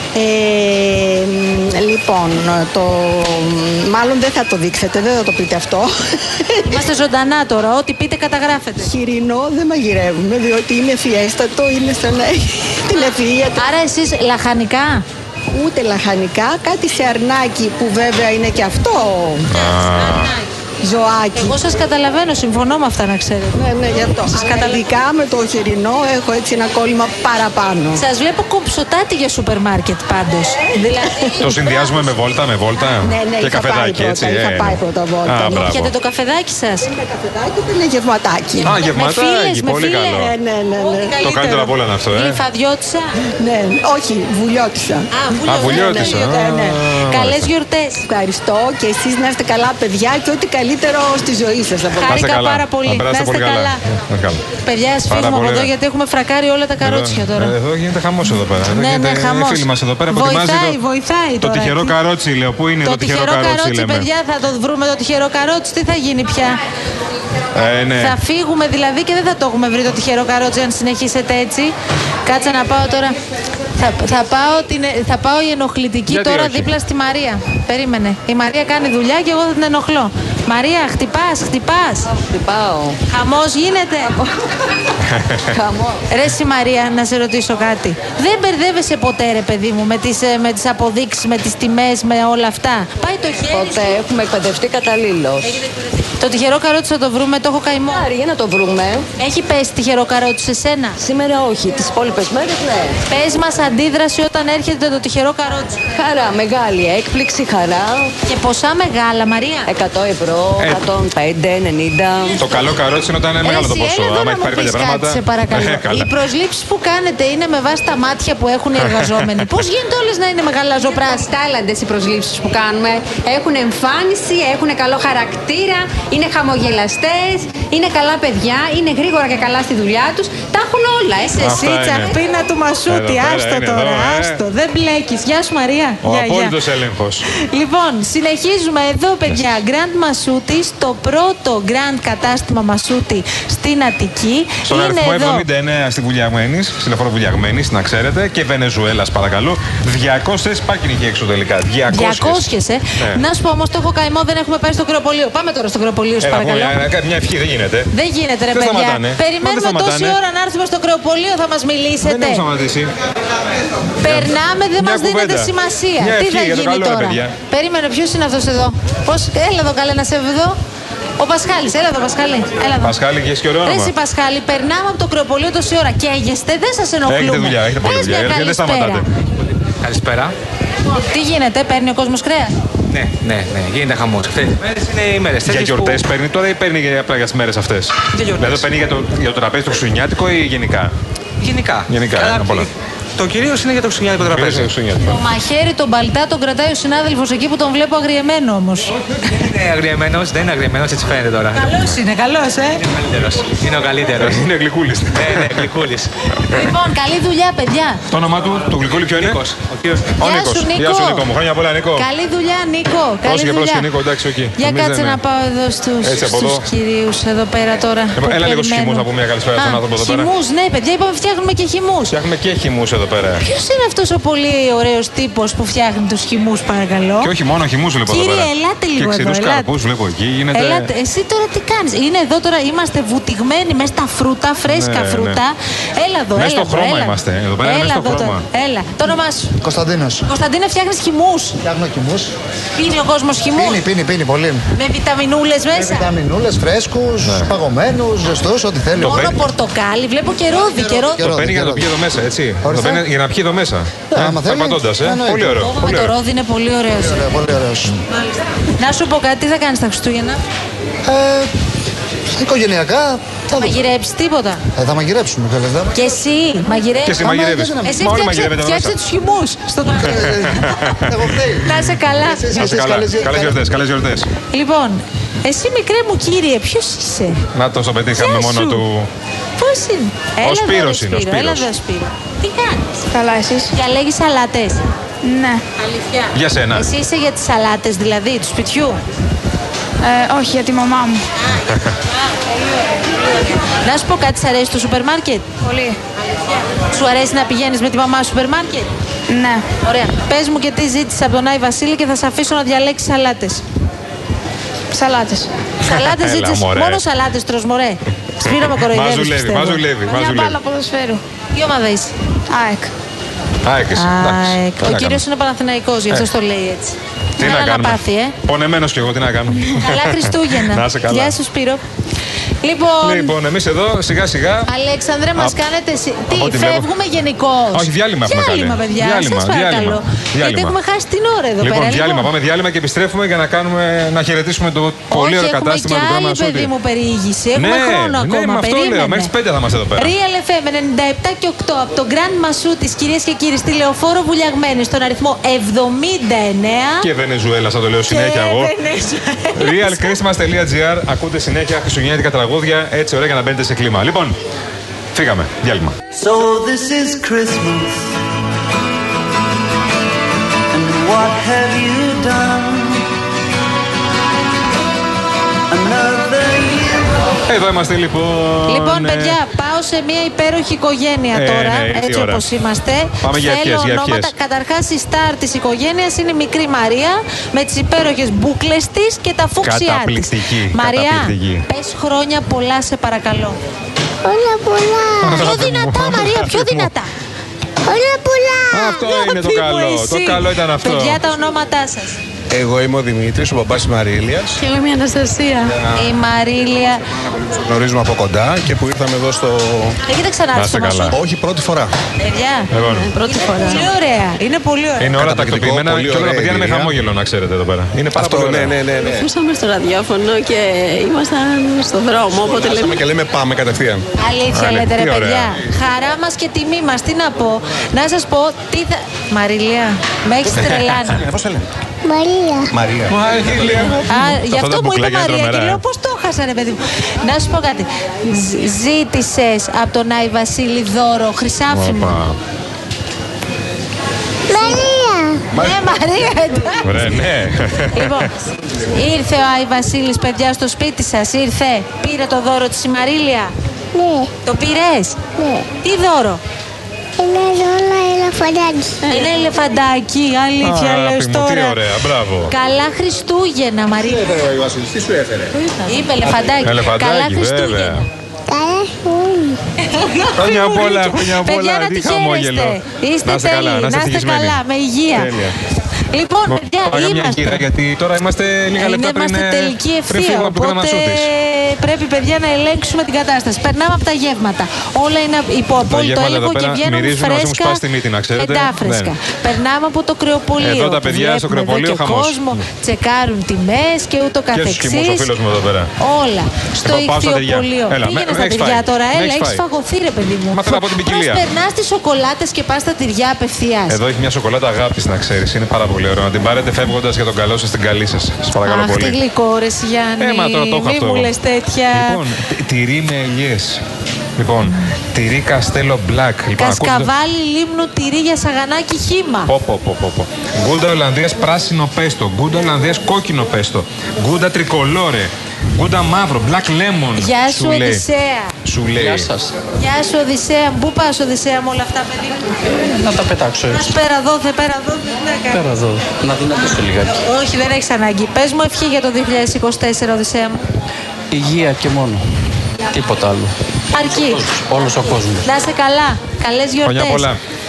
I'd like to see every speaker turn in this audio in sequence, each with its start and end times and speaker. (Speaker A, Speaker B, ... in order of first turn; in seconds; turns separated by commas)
Speaker A: 0.1-6.7, Speaker B: 6.7-8.9, Speaker A: 8.8-13.6, Speaker B: 13.6-15.0, Speaker A: 15.5-19.5, Speaker C: 19.5-20.3, Speaker B: 19.5-20.4, Speaker A: 20.8-21.6, Speaker B: 21.3-23.6, Speaker A: 23.5-28.0, Speaker B: 24.3-24.8, Speaker B: 27.9-31.9, Speaker C: 31.4-35.9, Speaker A: 33.0-35.6, Speaker B: 35.5-36.9, Speaker A: 37.0-38.7, Speaker B: 38.6-43.1, Speaker C: 38.6-40.3, Speaker A: 40.3-41.1, Speaker C: 41.2-42.4, Speaker A: 43.4-45.1, Speaker B: 45.1-48.1, Speaker C: 45.5-47.5, Speaker A: 45.6-46.7, Speaker A: 48.1-52.1, Speaker B: 51.9-53.8, Speaker C: 52.0-54.4, Speaker B: 54.6-57.5, Speaker C: 55.1-55.7, Speaker C: 56.8-60.8, Speaker B: 58.6-61.9, Speaker C: 61.4-64.1, Speaker B: 62.8-66.6, Speaker C: 67.5-68.2, Speaker B: 68.0-71.7, Speaker B: 72.2-73.2, Speaker B: 73.8-82.1, Speaker C: 76.1-76.7, Speaker D: 82.2-83.0, Speaker B: 83.1-84.1, Speaker C: 85.1-85.4, Speaker D: 85.5-86.0, Speaker B: 86.1-94.0, Speaker D: 93.5-95.6, Speaker B: 96.2-98.0, Speaker D: 97.9-99.0, Speaker B: 99.2-101.0, Speaker D: 101.0-103.0, Speaker B: 103.1-105.8, Speaker D: 105.9-108.1, Speaker B: 108.2-109.7, Speaker D: 109.7-112.4, Speaker C: 110.6-110.8, Speaker C: 112.4-116.1, Speaker B: 113.4-121.3, Speaker C: 118.9-119.3, Speaker E: 121.0-131.4, Speaker B: 131.2-136.6, Speaker C: 131.4-132.2, Speaker C: 132.9-134.4, Speaker C: 136.0-137.2, Speaker B: 137.3-145.4, Speaker C: 144.7-152.4, Speaker B: 151.9-156.8, Speaker C: 153.0-153.2, Speaker C: 156.2-157.9, Speaker B: 157.9-162.4, Speaker C: 158.5-160.2, Speaker C: 162.0-162.9, Speaker B: 164.0-170.6, Speaker C: 164.0-167.3, Speaker B: 171.2-172.9, Speaker C: 172.8-173.9, Speaker B: 173.6-179.0, Speaker C: 177.1-179.1, Speaker F: 179.8-180.3, Speaker B: 180.9-182.5, Speaker F: 182.9-186.0, Speaker C: 185.4-190.9, Speaker F: 188.1-188.7, Speaker F: 191.4-194.7, Speaker C: 191.9-192.7, Speaker C: 194.2-195.2, Speaker B: 195.0-198.9, Speaker F: 199.2-201.8, Speaker B: 201.5-202.8, Speaker F: 202.8-204.4, Speaker C: 204.2-205.6, Speaker F: 205.1-206.1, Speaker B: 206.5-208.0, Speaker C: 208.1-209.4, Speaker F: 208.9-210.2, Speaker C: 210.2-212.1, Speaker B: 210.2-211.2, Speaker B: 211.9-213.9, Speaker C: 213.2-215.2, Speaker B: 214.6-222.1, Speaker C: 216.0-216.7, Speaker C: 218.2-220.3, Speaker C: 222.1-223.4, Speaker B: 223.4-227.3, Speaker C: 227.2-230.9, Speaker B: 228.1-229.7, Speaker B: 230.5-239.5, Speaker C: 234.7-235.4, Speaker C: 236.3-238.4, Speaker G: 239.6-240.3, Speaker B: 240.3-241.6, Speaker G: 241.6-242.3, Speaker B: 242.8-243.8, Speaker G: 243.5-244.6, Speaker B: 244.7-246.1, Speaker G: 245.7-249.3, Speaker C: 247.2-247.5, Speaker B: 249.0-251.3, Speaker C: 249.0-249.4, Speaker G: 250.6-251.9, Speaker C: 251.2-256.1, Speaker G: 252.6-253.0, Speaker G: 254.1-255.7, Speaker B: 255.6-257.3, Speaker G: 257.0-257.9, Speaker B: 258.1-260.4, Speaker G: 261.0-261.5, Speaker G: 262.3-263.8, Speaker B: 263.5-264.6, Speaker G: 264.7-266.1, Speaker B: 265.9-270.6, Speaker C: 267.0-268.9, Speaker G: 267.2-268.0, Speaker G: 270.0-273.6, Speaker C: 270.1-271.2, Speaker B: 271.6-272.7, Speaker C: 272.5-274.3, Speaker B: 274.5-277.4, Speaker C: 277.5-279.1, Speaker B: 278.1-278.8, Speaker B: 279.6-282.9, Speaker C: 280.4-281.7, Speaker H: 283.1-283.7, Speaker B: 283.7-284.8, Speaker H: 285.2-285.6, Speaker B: 285.8-289.0, Speaker C: 286.3-286.9, Speaker H: 290.0-291.2, Speaker B: 291.4-292.5, Speaker B: 293.3-295.6, Speaker H: 295.6-296.0, Speaker B: 296.6-298.9, Speaker H: 299.3-299.6, Speaker B: 299.8-303.6, Speaker H: 304.9-305.5, Speaker B: 305.8-309.8, Speaker C: 305.8-307.0, Speaker C: 308.4-310.6, Speaker H: 310.1-311.2, Speaker B: 311.5-312.1, Speaker H: 312.5-312.9, Speaker C: 313.6-315.2, Speaker B: 313.9-318.4, Speaker C: 317.4-321.4, Speaker B: 319.7-321.8, Speaker B: 322.6-323.3, Speaker C: 323.0-324.7, Speaker B: 324.7-332.3, Speaker C: 326.3-326.9, Speaker C: 327.7-330.8, Speaker C: 331.6-336.7, Speaker B: 335.1-339.3, Speaker C: 337.5-340.1, Speaker B: 340.0-347.1, Speaker C: 347.0-348.7, Speaker B: 348.1-350.2, Speaker C: 349.6-354.4, Speaker C: 355.1-355.9, Speaker I: 356.1-358.1, Speaker I: 360.7-363.0, Speaker I: 365.7-367.1, Speaker C: 367.5-369.4, Speaker B: 368.7-383.6, Speaker C: 371.3-372.4, Speaker C: 373.2-374.3, Speaker C: 379.6-381.6, Speaker J: 384.2-385.4, Speaker C: 385.2-386.9, Speaker B: 385.3-387.1, Speaker J: 387.9-389.0, Speaker C: 388.7-391.2, Speaker B: 388.9-392.2, Speaker K: 392.5-394.6, Speaker B: 395.9-397.0, Speaker K: 397.2-400.0, Speaker B: 400.1-401.2, Speaker C: 400.5-401.1, Speaker K: 401.1-401.9, Speaker B: 402.2-405.1, Speaker C: 402.7-403.1, Speaker C: 405.0-408.8, Speaker K: 405.2-406.9, Speaker K: 408.1-409.3, Speaker K: 412.3-414.0, Speaker B: 414.2-421.2, Speaker C: 414.5-415.6, Speaker C: 420.6-420.9, Speaker J: 422.0-422.7, Speaker K: 422.7-424.0, Speaker C: 423.1-425.8, Speaker B: 424.1-432.2, Speaker C: 431.7-432.4, Speaker J: 434.5-435.5, Speaker B: 435.5-437.2, Speaker C: 436.8-438.3, Speaker B: 437.9-443.5, Speaker J: 443.9-444.3, Speaker B: 444.4-445.2, Speaker J: 445.4-445.7, Speaker B: 445.8-446.4, Speaker J: 447.2-449.0, Speaker B: 449.1-451.8, Speaker C: 450.6-452.5, Speaker B: 452.5-454.3, Speaker K: 454.3-455.5, Speaker B: 455.8-458.0, Speaker C: 456.6-458.0, Speaker J: 458.5-459.6, Speaker B: 459.8-465.3, Speaker C: 460.3-464.6, Speaker C: 465.1-465.6, Speaker B: 466.1-467.6, Speaker C: 466.4-471.3, Speaker B: 468.8-477.8, Speaker C: 475.9-479.1, Speaker B: 478.4-485.3, Speaker C: 480.6-482.6, Speaker C: 484.5-485.9, Speaker B: 486.0-494.0, Speaker C: 486.8-489.6, Speaker C: 490.5-491.5, Speaker C: 493.9-499.2, Speaker B: 498.6-502.2, Speaker C: 500.2-501.3, Speaker C: 501.9-503.8, Speaker C: 504.4-507.1, Speaker B: 506.5-509.5, Speaker C: 509.5-518.0, Speaker B: 517.2-518.5, Speaker C: 518.6-519.3, Speaker L: 519.0-519.5, Speaker B: 519.8-522.9, Speaker L: 523.0-523.8, Speaker B: 523.7-525.7, Speaker L: 525.5-527.1, Speaker B: 526.6-530.6, Speaker L: 531.3-532.2, Speaker L: 532.9-533.5, Speaker B: 533.9-537.3, Speaker L: 534.6-535.5, Speaker C: 536.8-537.4